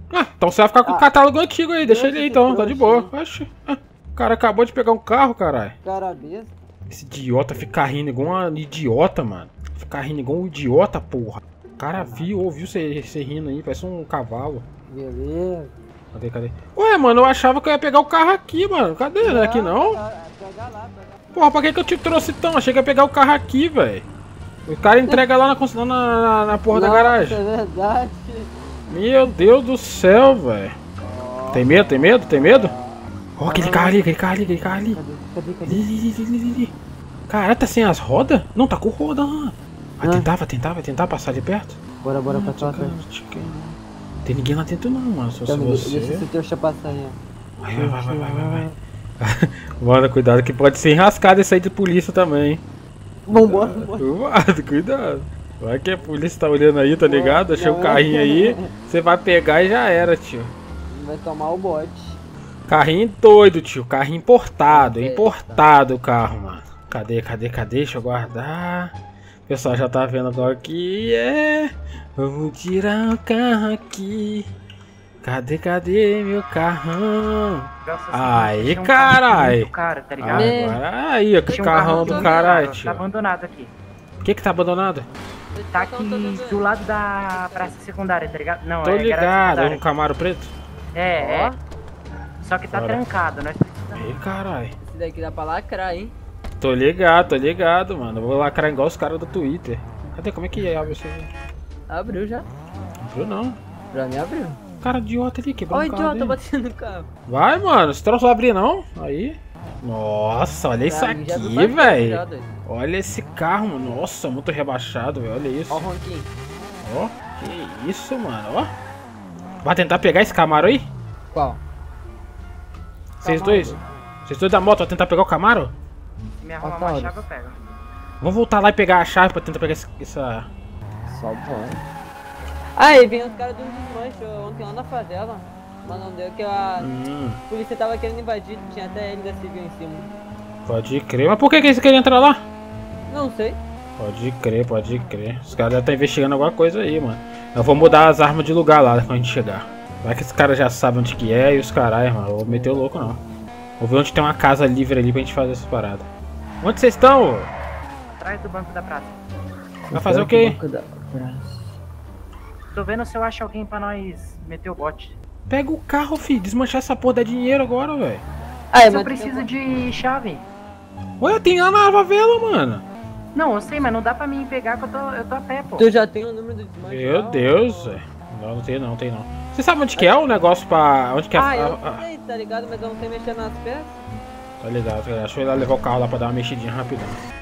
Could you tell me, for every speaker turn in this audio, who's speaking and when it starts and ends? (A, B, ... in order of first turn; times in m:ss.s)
0:00.1-0:05.7 A
0:01.8-0:03.1 B
0:05.8-0:06.5 B
0:06.9-0:14.6 A
0:12.0-0:12.3 B
0:14.9-0:15.7 B
0:16.1-0:20.0 A
0:19.2-0:21.2 B
0:21.3-0:24.0 A
0:24.6-0:27.4 A
0:26.7-0:28.5 B
0:28.9-0:30.8 A
0:31.0-0:35.8 B
0:31.5-0:32.7 A
0:33.4-0:35.0 A
0:35.6-0:36.7 A
0:37.3-0:46.2 A
0:40.0-0:40.3 B
0:42.0-0:43.0 B
0:45.5-0:47.2 B
0:47.6-0:48.7 A
0:47.8-0:48.7 B
0:49.2-0:52.6 A
0:53.3-0:54.1 B
0:53.3-1:00.5 A
0:57.0-0:58.7 B
1:00.9-1:02.2 B
1:02.7-1:08.9 A
1:04.7-1:05.6 B
1:09.5-1:14.5 A
1:15.2-1:23.0 A
1:17.8-1:20.6 C
1:20.3-1:20.8 B
1:21.5-1:23.7 C
1:21.5-1:22.7 B
1:24.2-1:25.1 A
1:25.6-1:26.7 B
1:25.7-1:29.8 C
1:27.2-1:27.8 B
1:28.8-1:30.5 A
1:30.9-1:31.5 C
1:31.1-1:31.6 B
1:32.4-1:34.2 C
1:32.7-1:33.0 A
1:33.9-1:34.7 A
1:34.8-1:36.1 B
1:36.6-1:41.3 A
1:41.9-1:42.5 B
1:43.0-1:43.6 A
1:43.9-1:44.6 B
1:44.8-1:46.4 A
1:45.7-1:47.1 B
1:47.3-1:55.8 A
1:50.9-1:52.5 B
1:55.7-1:56.3 B
1:56.8-1:58.7 A
1:59.6-2:00.9 A
2:01.3-2:01.6 B
2:03.2-2:03.8 B
2:03.2-2:05.7 A
2:06.4-2:07.6 C
2:06.6-2:07.2 B
2:08.2-2:10.5 A
2:11.1-2:11.8 B
2:12.8-2:16.9 B
2:16.8-2:17.4 A
2:17.5-2:20.1 B
2:20.6-2:22.4 A
2:23.1-2:23.6 B
2:24.0-2:33.2 A
2:32.4-2:33.2 B
2:33.8-2:36.1 A
2:36.6-2:37.5 A
2:38.2-2:39.2 C
2:39.9-2:40.6 A
2:39.9-2:41.7 B
2:42.7-2:45.1 C
2:45.5-2:48.2 A
2:48.7-2:49.5 B
2:48.8-2:50.4 C
2:51.2-2:52.8 A
2:53.4-2:55.9 C
2:55.8-2:58.0 B
2:56.9-3:02.0 A
2:59.9-3:00.4 B
3:01.3-3:03.9 B
3:04.6-3:07.2 A